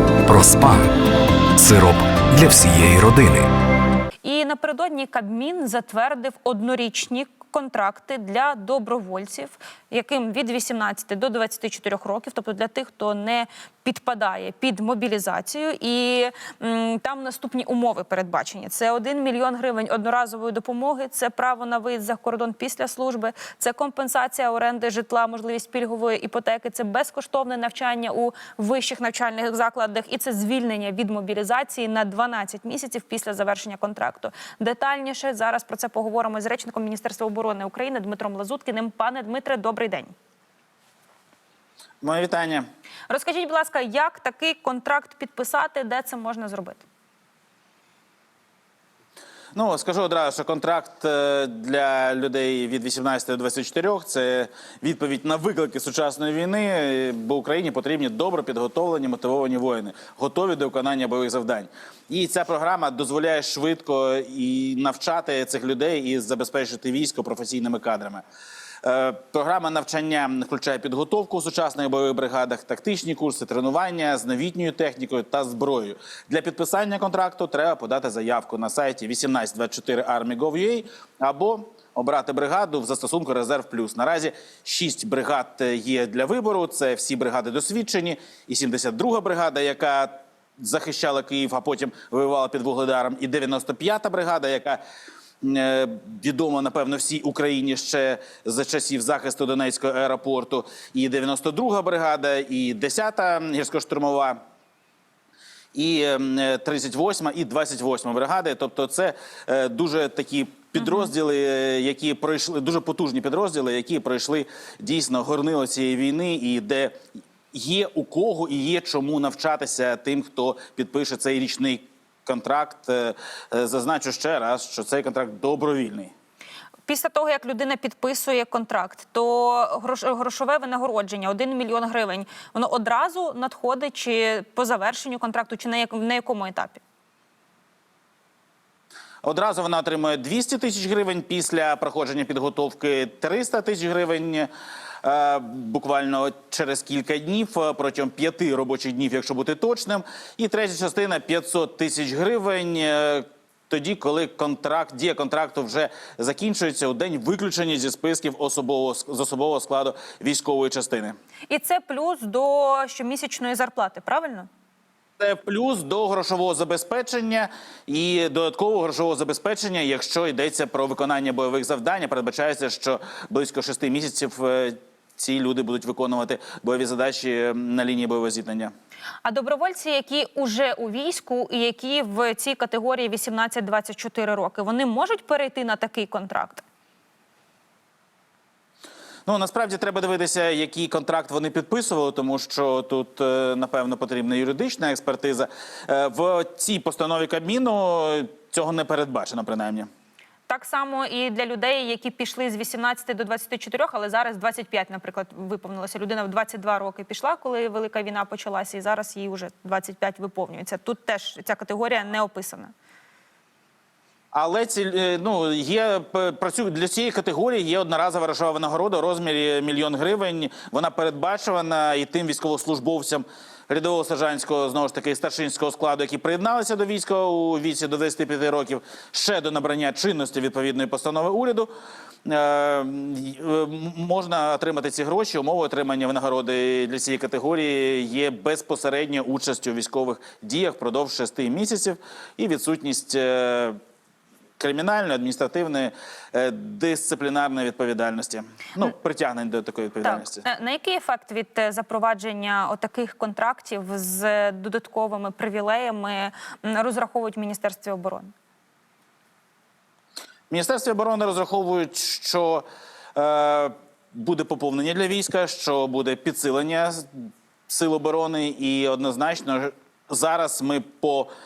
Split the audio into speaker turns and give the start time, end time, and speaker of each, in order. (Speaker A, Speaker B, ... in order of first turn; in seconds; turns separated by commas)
Speaker A: 0.2-0.9, Speaker A: 1.6-3.5, Speaker B: 4.2-40.1, Speaker C: 42.0-42.7, Speaker B: 43.1-46.8, Speaker C: 49.5-68.2, Speaker C: 68.8-94.8, Speaker C: 95.4-104.4, Speaker C: 105.7-117.0, Speaker B: 110.8-111.1, Speaker C: 117.5-126.1, Speaker B: 126.9-136.8, Speaker C: 139.2-144.5, Speaker C: 145.0-161.2, Speaker B: 161.5-164.5, Speaker C: 165.2-178.7, Speaker B: 179.2-186.6, Speaker C: 189.3-199.9, Speaker B: 200.5-212.7, Speaker C: 214.3-231.7, Speaker C: 232.3-243.8, Speaker C: 244.6-250.4, Speaker B: 250.0-258.3, Speaker C: 260.5-267.1, Speaker C: 267.7-271.3